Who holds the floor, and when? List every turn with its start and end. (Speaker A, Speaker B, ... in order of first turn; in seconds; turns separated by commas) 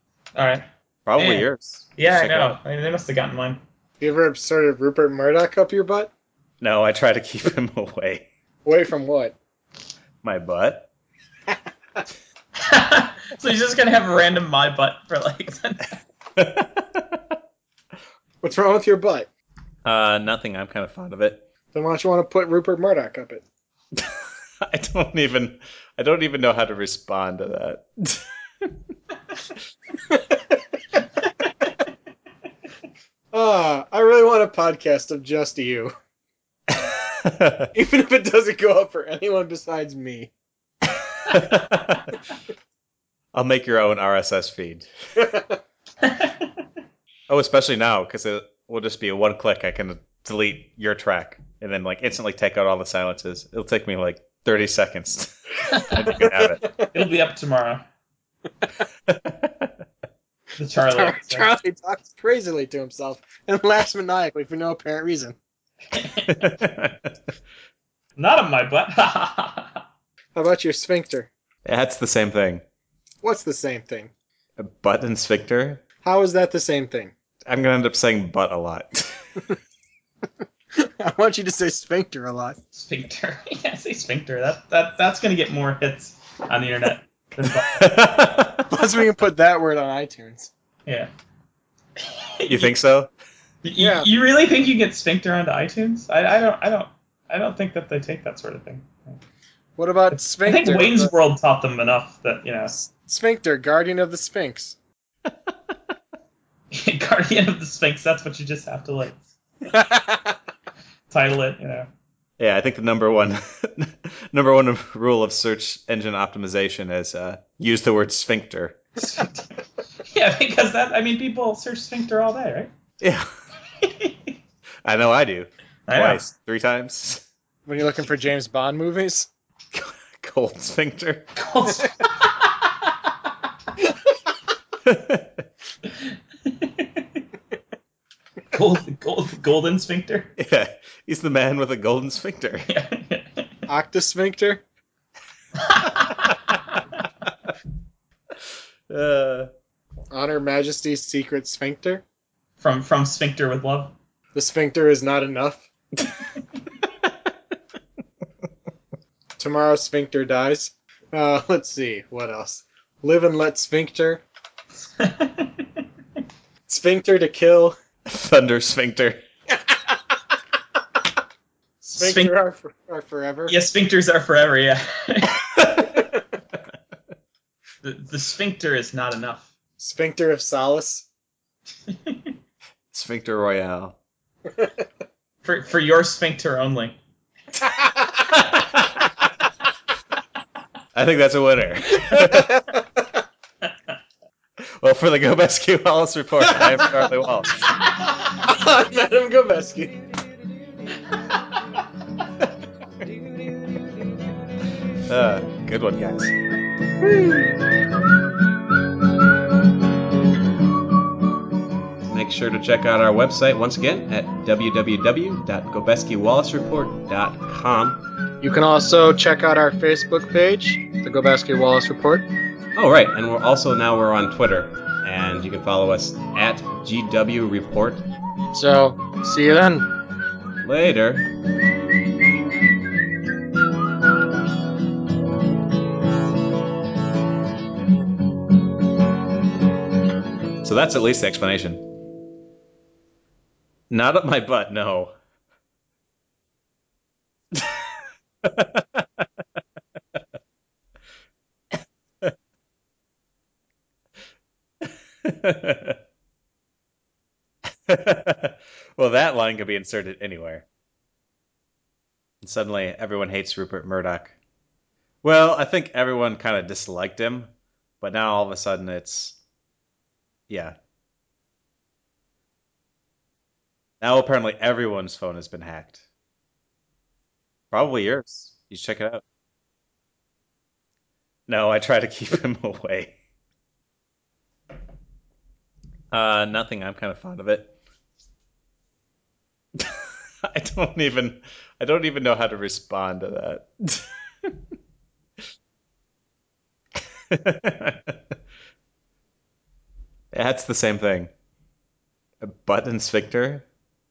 Speaker A: 0.3-0.7, Speaker B: 1.1-2.6, Speaker A: 1.2-3.6, Speaker C: 4.0-6.1, Speaker B: 6.6-8.2, Speaker C: 8.6-9.3, Speaker B: 10.2-10.9, Speaker A: 12.6-16.0, Speaker B: 16.4-17.3, Speaker C: 18.4-19.3, Speaker B: 19.8-21.4, Speaker C: 21.7-23.4, Speaker B: 24.6-28.2, Speaker C: 30.1-30.6, Speaker C: 33.3-35.9, Speaker B: 36.7-37.7, Speaker C: 37.7-40.3, Speaker B: 41.3-42.1, Speaker B: 43.3-44.9, Speaker C: 45.2-45.5, Speaker A: 46.0-46.5, Speaker B: 47.3-56.6, Speaker C: 56.4-56.9, Speaker A: 56.9-57.8, Speaker B: 59.1-59.7, Speaker A: 60.5-61.5, Speaker C: 61.0-65.3, Speaker A: 65.9-66.6, Speaker B: 66.3-67.1, Speaker A: 68.2-69.8, Speaker C: 70.3-71.3, Speaker B: 71.6-72.6, Speaker C: 73.2-74.1, Speaker B: 74.6-75.8, Speaker C: 76.0-77.1, Speaker B: 77.5-79.1, Speaker C: 80.8-82.6, Speaker A: 82.7-88.1, Speaker B: 87.8-88.6, Speaker C: 88.7-90.5, Speaker A: 90.8-91.1, Speaker A: 92.0-92.7, Speaker B: 92.5-93.1, Speaker A: 93.6-99.2, Speaker C: 93.8-94.1, Speaker C: 99.8-101.1, Speaker A: 100.1-102.7, Speaker C: 102.7-104.8, Speaker A: 106.7-109.2, Speaker C: 109.7-110.3, Speaker A: 111.1-111.9, Speaker B: 112.4-118.8, Speaker A: 119.0-122.7, Speaker B: 123.0-123.3, Speaker A: 123.8-124.3, Speaker B: 124.8-127.2, Speaker A: 125.9-126.2, Speaker C: 127.7-129.3, Speaker B: 129.7-131.3, Speaker A: 131.3-132.9, Speaker B: 134.8-135.4, Speaker A: 136.0-137.2, Speaker A: 138.5-140.3, Speaker B: 140.4-142.7, Speaker A: 142.7-143.5, Speaker C: 143.7-144.6, Speaker A: 145.6-146.4, Speaker B: 148.9-149.5, Speaker C: 150.1-152.0, Speaker A: 152.6-153.9, Speaker C: 154.3-155.6, Speaker C: 159.4-164.2, Speaker A: 164.8-165.7, Speaker C: 166.7-167.8, Speaker B: 168.1-169.2, Speaker C: 171.8-173.5, Speaker A: 171.9-172.4, Speaker A: 173.4-175.8, Speaker A: 177.8-179.5, Speaker C: 179.8-181.1, Speaker A: 181.9-182.3, Speaker B: 182.9-183.9, Speaker A: 185.4-186.9, Speaker B: 188.5-189.0, Speaker B: 190.9-192.5, Speaker B: 194.8-197.6, Speaker C: 196.4-197.0, Speaker C: 198.4-200.0, Speaker B: 205.1-206.3, Speaker B: 212.1-218.0, Speaker C: 218.4-222.3, Speaker B: 222.8-228.0, Speaker C: 228.5-229.9, Speaker B: 230.6-231.3, Speaker B: 240.6-241.8, Speaker B: 243.9-245.1, Speaker B: 248.4-249.3, Speaker B: 254.8-256.0, Speaker B: 257.9-260.6, Speaker B: 262.4-264.3, Speaker B: 265.2-267.5, Speaker B: 268.0-269.4, Speaker B: 270.5-270.8, Speaker B: 274.0-276.0, Speaker B: 277.7-279.2, Speaker B: 281.5-283.1, Speaker B: 286.1-287.7, Speaker B: 289.8-294.5, Speaker B: 297.3-298.1, Speaker B: 300.3-301.3, Speaker B: 302.4-303.6